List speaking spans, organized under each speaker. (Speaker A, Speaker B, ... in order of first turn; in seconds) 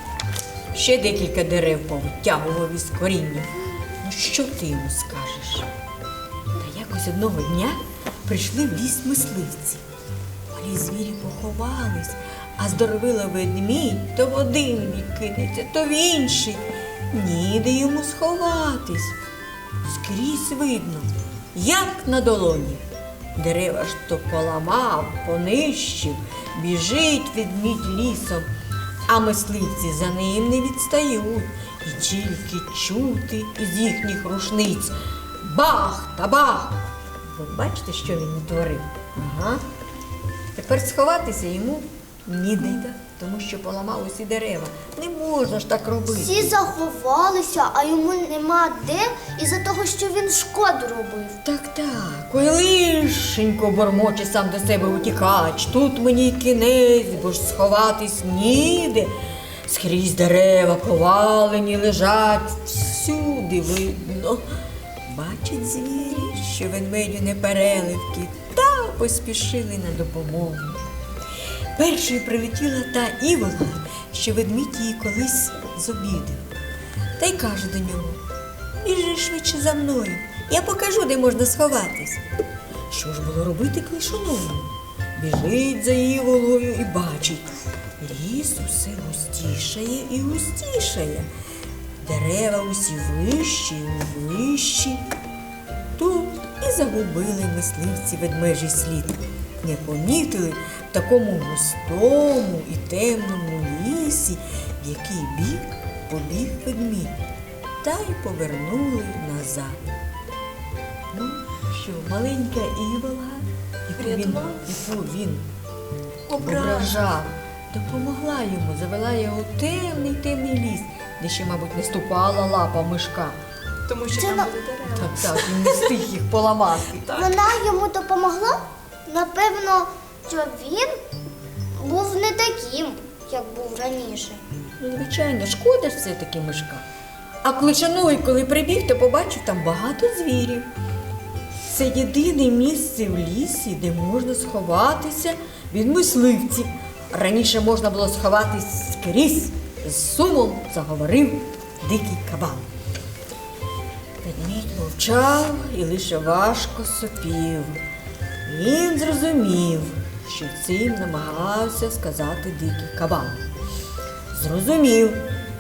Speaker A: 0.7-5.7, 6.5-9.8, 10.5-19.2, 19.8-22.8, 23.4-28.5, 29.1-39.6, 40.5-46.6, 51.4-59.1, 59.7-64.4, 65.1-70.8, 71.8-76.5, 77.2-78.2, 78.8-82.2, 82.9-91.3, 92.0-95.0, 96.0-107.2, 107.8-109.8, 111.1-115.5, 116.4-123.4, 124.8-127.1, 134.8-136.8, 137.4-140.7, 141.7-152.7, 154.2-157.8, 158.4-163.4, 164.3-165.2
Speaker B: 46.1-51.4, 124.2-124.5, 127.2-130.9, 131.8-134.4
Speaker C: 114.0-114.7, 116.3-117.0, 123.9-126.0, 127.0-127.4